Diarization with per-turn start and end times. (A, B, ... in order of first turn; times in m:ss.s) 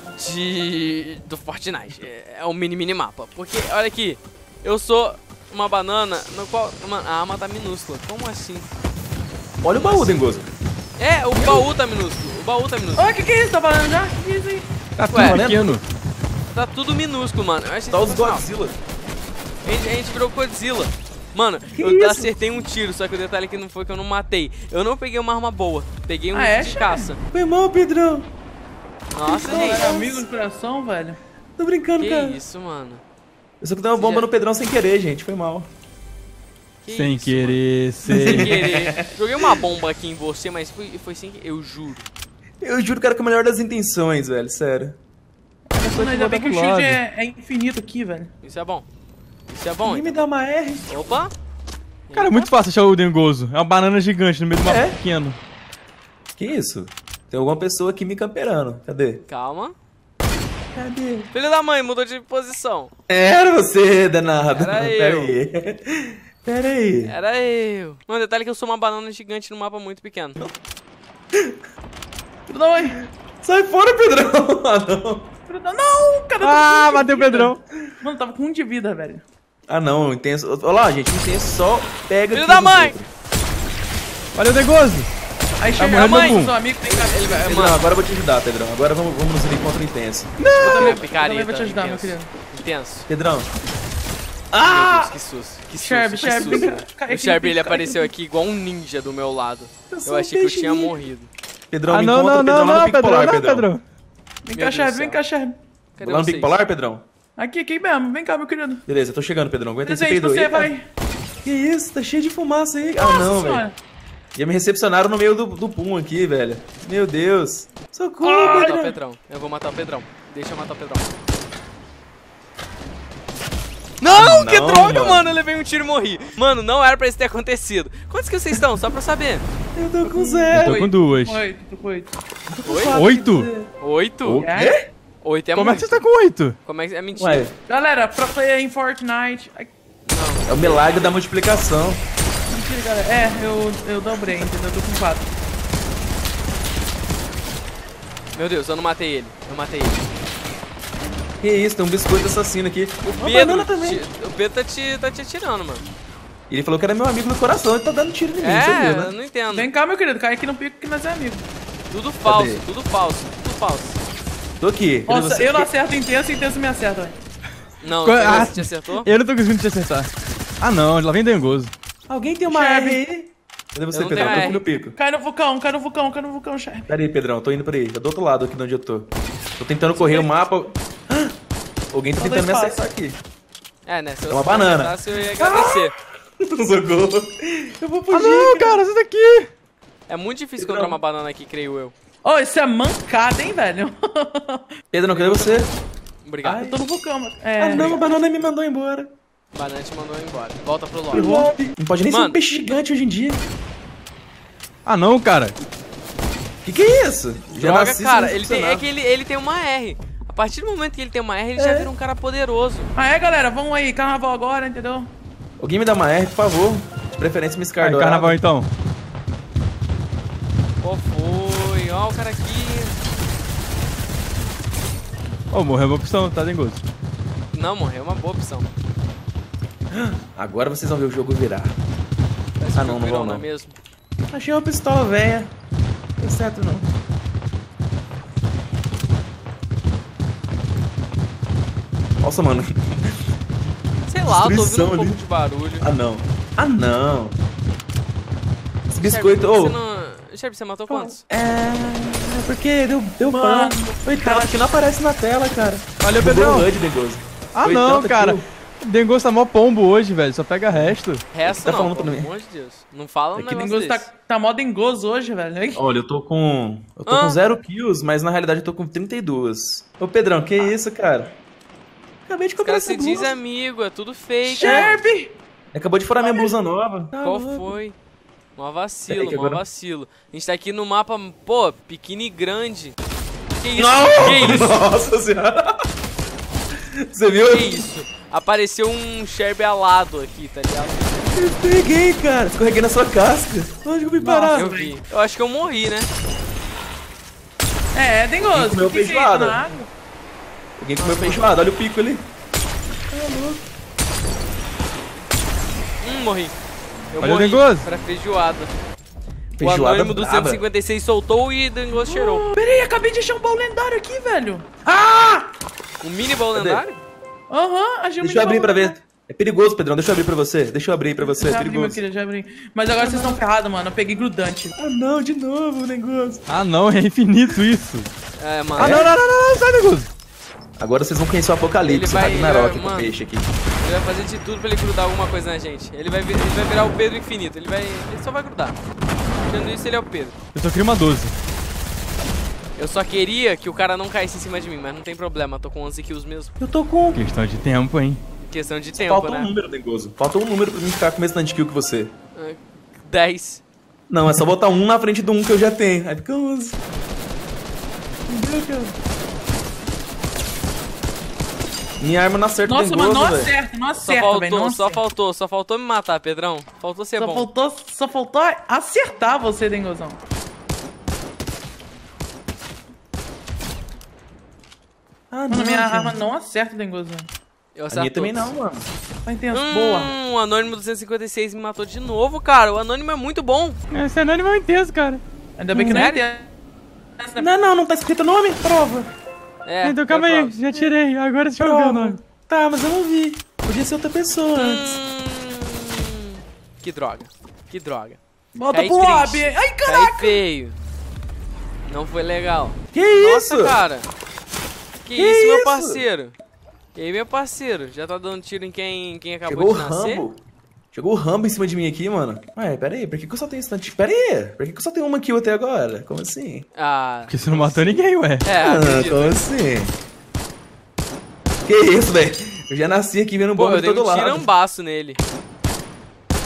0:00.2-0:08.7 A
0:09.6-0:10.5 B
0:09.7-0:10.2 A
0:11.0-0:13.2 A
0:11.4-0:11.6 C
0:13.0-0:14.7 C
0:15.0-0:15.8 D
0:15.0-0:15.8 B
0:15.1-0:15.4 A
0:16.5-0:18.4 A
0:17.9-0:18.8 B
0:19.6-0:27.2 A
0:21.7-0:22.3 B
0:26.3-0:27.1 C
0:27.3-0:28.3 B
0:29.1-0:29.8 A
0:29.3-0:31.2 C
0:29.4-0:30.2 B
0:31.6-0:32.4 B
0:32.0-0:33.0 A
0:33.6-0:35.7 B
0:33.9-0:34.3 A
0:36.8-0:37.6 A
0:36.9-0:38.5 D
0:38.1-0:39.4 B
0:38.2-0:42.0 A
0:42.6-0:45.0 B
0:45.7-0:48.3 C
0:45.8-0:47.0 D
0:48.4-0:48.9 A
0:49.5-0:50.2 A
0:49.8-0:50.9 B
0:50.9-0:51.3 A
0:52.1-0:52.5 A
0:52.1-0:55.4 D
0:54.6-0:55.0 B
0:56.4-0:59.2 B
0:59.3-0:59.7 A
1:00.7-1:01.3 B
1:01.3-1:02.9 A
1:03.1-1:07.1 B
1:04.5-1:05.4 A
1:07.0-1:10.4 A
1:12.5-1:13.0 C
1:13.4-1:15.3 B
1:15.5-1:19.2 C
1:16.4-1:17.6 D
1:19.7-1:23.1 B
1:22.3-1:23.0 A
1:24.3-1:25.1 D
1:25.6-1:27.6 C
1:25.8-1:26.5 D
1:26.0-1:27.8 A
1:27.4-1:30.3 B
1:30.4-1:31.0 D
1:30.6-1:32.3 C
1:30.6-1:33.1 A
1:33.1-1:33.5 B
1:34.5-1:35.1 B
1:34.6-1:41.3 A
1:35.7-1:38.1 C
1:39.9-1:41.0 B
1:41.7-1:43.7 B
1:41.9-1:43.8 D
1:44.4-1:45.6 C
1:44.5-1:45.2 A
1:46.0-1:46.6 A
1:46.0-1:47.0 B
1:47.4-1:48.8 C
1:48.9-1:50.7 B
1:49.8-1:50.8 C
1:51.4-1:53.6 B
1:52.9-1:53.8 C
1:54.3-1:58.9 B
1:58.2-1:58.7 C
1:58.5-2:01.1 A
2:04.0-2:09.4 A
2:04.0-2:05.2 B
2:09.7-2:10.9 B
2:10.0-2:10.4 C
2:10.5-2:11.4 D
2:11.1-2:12.1 C
2:12.5-2:13.7 B
2:12.6-2:13.0 A
2:12.9-2:13.5 D
2:13.8-2:14.5 A
2:14.2-2:14.8 B
2:14.4-2:14.7 C
2:15.2-2:16.0 A
2:15.5-2:16.6 D
2:16.6-2:17.5 A
2:17.2-2:17.5 B
2:17.7-2:19.7 C
2:20.0-2:21.2 A
2:20.5-2:22.0 B
2:22.5-2:25.3 C
2:28.3-2:30.1 A
2:31.4-2:34.0 B
2:33.0-2:35.8 A
2:36.5-2:39.1 B
2:38.4-2:39.7 A
2:39.5-2:41.4 C
2:41.9-2:44.0 A
2:42.2-2:42.6 B
2:44.6-2:45.7 B
2:45.1-2:47.2 C
2:47.8-2:49.1 A
2:48.0-2:50.1 D
2:50.6-2:51.7 D
2:52.1-2:55.0 B
2:52.4-2:53.0 C
2:53.9-2:54.6 A
2:54.2-2:56.9 C
2:56.9-3:01.3 B
2:59.9-3:00.3 C
3:01.9-3:03.2 B
3:02.2-3:02.8 C
3:03.8-3:05.9 A
3:04.3-3:08.8 B
3:08.1-3:09.5 D
3:10.1-3:11.9 A
3:10.6-3:11.0 B
3:12.2-3:14.6 C
3:14.9-3:15.7 B
3:15.1-3:15.7 A
3:16.2-3:16.6 A
3:16.4-3:16.8 B
3:16.6-3:18.0 C
3:17.6-3:19.1 B
3:19.5-3:21.3 A
3:21.1-3:23.4 B
3:21.1-3:21.5 C
3:22.1-3:22.4 A
3:24.8-3:25.6 D
3:26.6-3:28.8 B
3:27.5-3:32.9 A
3:31.6-3:31.9 B
3:32.9-3:35.1 C
3:35.6-3:38.4 B
3:37.7-3:38.7 D
3:40.8-3:43.0 A
3:45.5-3:46.8 D
3:47.5-3:48.7 A
3:49.9-3:51.8 B
3:52.6-3:53.8 A
3:52.7-3:53.4 B
3:54.3-3:55.5 B
3:56.2-3:56.9 B
4:02.2-4:03.1 B
4:04.0-4:05.8 A
4:04.2-4:05.2 B
4:05.8-4:07.4 B
4:08.9-4:09.8 B
4:09.0-4:11.2 A
4:10.9-4:18.4 B
4:13.2-4:14.7 C
4:16.0-4:16.7 D
4:17.5-4:21.2 D
4:21.3-4:24.1 A
4:21.4-4:22.3 B
4:23.4-4:25.8 C
4:25.7-4:31.3 B
4:27.0-4:27.4 A
4:32.3-4:33.4 B
4:32.6-4:35.0 A
4:34.4-4:35.3 C
4:34.6-4:34.9 B
4:35.7-4:37.7 B
4:36.2-4:36.5 C
4:37.2-4:38.0 A
4:38.6-4:43.0 A
4:39.1-4:39.6 B
4:43.6-4:44.8 A
4:43.8-4:45.8 B
4:47.0-4:47.9 B
4:47.5-4:51.2 A
4:51.3-4:54.7 B
4:54.2-4:54.9 C
4:54.5-4:56.1 A
4:57.9-4:59.9 C
4:58.5-4:59.6 B
5:00.8-5:02.2 B
5:01.0-5:01.4 A
5:03.1-5:03.6 B
5:06.0-5:06.6 A
5:07.1-5:08.7 A
5:07.2-5:07.8 D
5:09.6-5:10.6 B
5:09.6-5:12.5 A
5:11.9-5:14.7 C
5:14.8-5:15.4 B
5:16.0-5:17.0 A
5:16.5-5:16.8 B
5:17.5-5:19.0 C
5:18.2-5:22.0 B
5:21.2-5:24.7 C
5:23.0-5:23.3 B
5:24.8-5:26.4 B
5:26.5-5:28.1 D
5:28.4-5:29.1 A
5:28.8-5:29.1 B
5:28.8-5:30.1 D
5:30.8-5:33.5 B
5:31.8-5:33.1 A
5:33.8-5:38.8 A
5:39.4-5:40.3 A
5:40.5-5:41.3 D
5:42.8-5:46.5 A
5:46.6-5:47.2 B
5:47.1-5:48.2 D
5:48.4-5:49.5 A
5:48.9-5:52.1 B
5:52.3-5:53.6 A
5:54.1-5:56.8 B
5:58.3-5:58.9 B
6:02.0-6:03.5 B
6:02.6-6:05.0 C
6:04.0-6:07.5 A
6:07.2-6:10.2 C
6:15.3-6:16.2 B
6:15.5-6:17.3 C
6:17.7-6:18.5 A
6:17.9-6:18.9 B
6:19.2-6:20.1 C
6:19.5-6:23.8 A
6:23.9-6:25.2 D
6:25.6-6:26.5 C
6:25.7-6:26.0 B
6:25.9-6:26.2 A
6:27.2-6:27.5 C
6:27.4-6:29.1 B
6:29.6-6:30.6 A
6:29.8-6:32.2 D
6:31.6-6:35.0 B
6:34.6-6:38.2 A
6:38.5-6:40.4 C
6:38.7-6:40.8 A
6:41.8-6:44.1 A
6:42.9-6:43.8 B
6:45.0-6:46.3 A
6:45.2-6:46.0 B
6:46.9-6:50.2 A
6:49.5-6:50.4 B
6:50.9-6:56.6 B
6:56.8-6:57.7 A
6:57.3-6:58.4 D
6:58.4-6:59.4 A
6:58.6-6:59.9 B
7:01.6-7:04.4 B
7:03.6-7:05.2 A